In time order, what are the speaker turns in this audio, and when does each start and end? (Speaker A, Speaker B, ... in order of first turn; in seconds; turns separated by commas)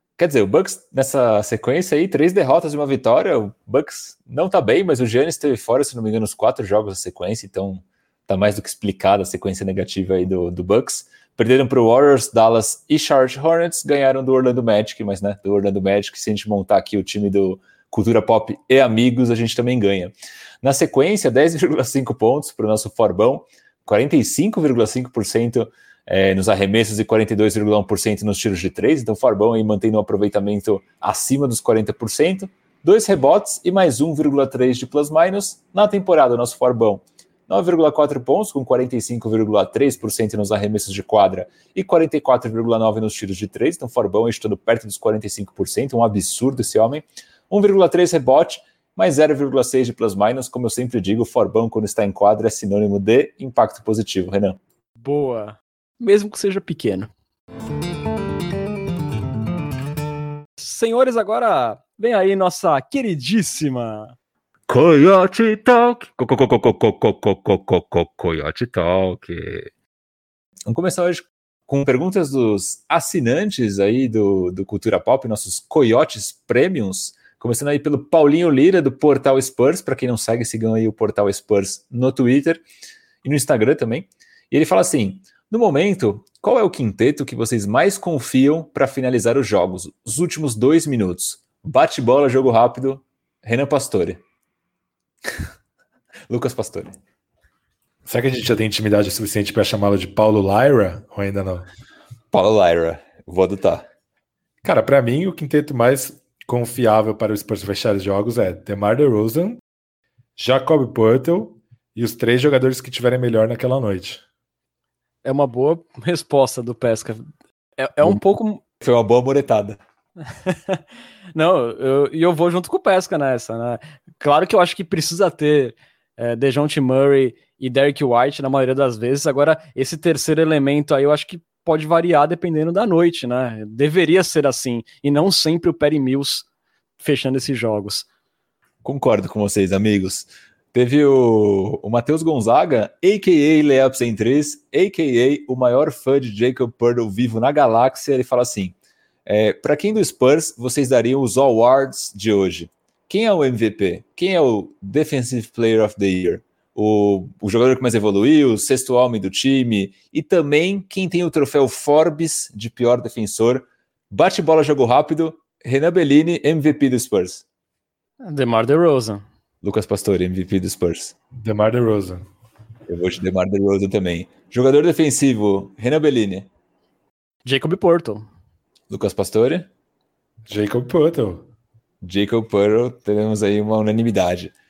Speaker A: 0.2-54.6, Speaker B: 55.0-57.1, Speaker B: 60.6-64.1, Speaker A: 64.7-69.7, Speaker A: 70.7-82.6, Speaker A: 83.2-94.2, Speaker A: 96.3-96.9, Speaker C: 98.0-101.7, Speaker A: 102.3-103.9, Speaker C: 104.6-109.6, Speaker C: 110.4-114.2, Speaker B: 115.2-117.2, Speaker B: 117.8-118.6, Speaker A: 118.8-119.8, Speaker B: 120.5-120.8, Speaker B: 121.3-136.4, Speaker B: 137.0-138.1, Speaker A: 138.8-148.7, Speaker A: 149.2-167.4, Speaker B: 168.2-169.2, Speaker A: 169.6-171.1, Speaker C: 171.4-172.2, Speaker A: 172.9-176.5, Speaker B: 177.4-178.3, Speaker A: 178.9-179.7, Speaker C: 180.5-181.4, Speaker A: 182.0-184.5